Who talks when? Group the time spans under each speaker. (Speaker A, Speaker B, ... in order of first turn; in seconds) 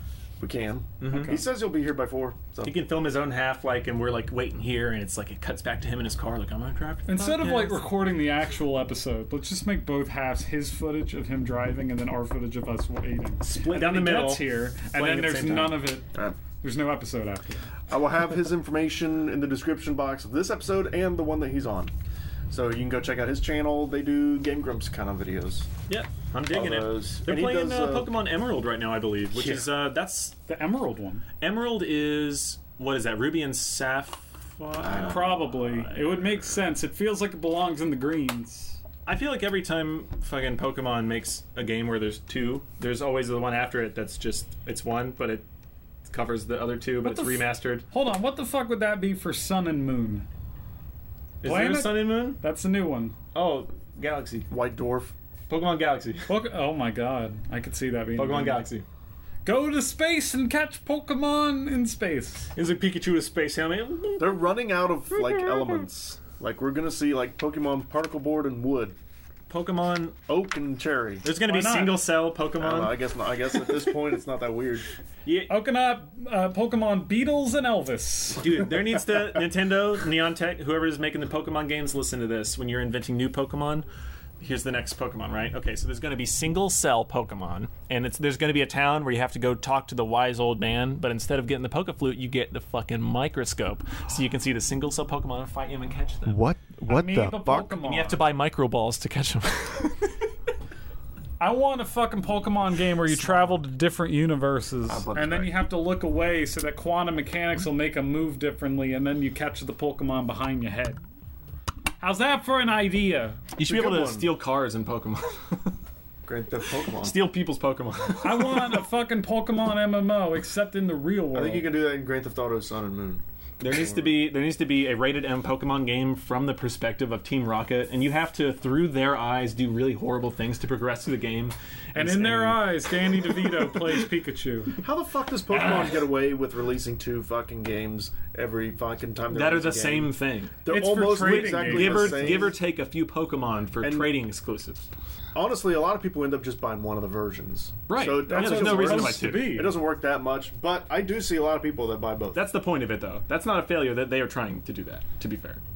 Speaker A: 0.4-2.8, 17.9-21.9, 22.5-25.7, 26.5-28.1, 34.8-35.4, 54.5-55.1, 64.2-69.0, 70.3-71.2, 72.6-74.9, 96.3-97.8, 104.9-105.6, 113.6-114.3, 116.3-117.2, 121.3-124.2, 134.8-142.6, 143.8-144.1, 145.3-152.4
Speaker B: 1.0-1.4, 2.6-7.9, 13.4-15.9, 25.9-30.4, 31.4-36.3, 39.1-45.5, 46.1-47.9, 51.4-52.4, 53.3-54.5, 55.5-56.3, 58.2-58.9, 62.5-64.5, 65.1-65.9, 69.5-70.2, 71.2-73.0, 73.5-73.8, 75.2-75.5, 78.4-83.9, 84.4-96.4, 97.8-100.3, 113.6-115.8, 117.0-118.8, 123.6-133.9, 139.3-140.6, 141.2-144.9, 147.9-149.6, 152.3-155.6
Speaker C: 1.1-1.4, 7.1-16.1, 16.6-17.8, 30.5-31.2, 34.9-38.8, 47.0-50.3, 51.4-53.2, 56.3-58.7, 59.5-62.5, 71.4-72.0, 75.5-78.6, 96.9-98.2, 101.4-111.0, 112.0-113.5, 118.2-121.7, 131.9-134.8, 135.5-135.9, 140.7-142.5, 148.2-149.7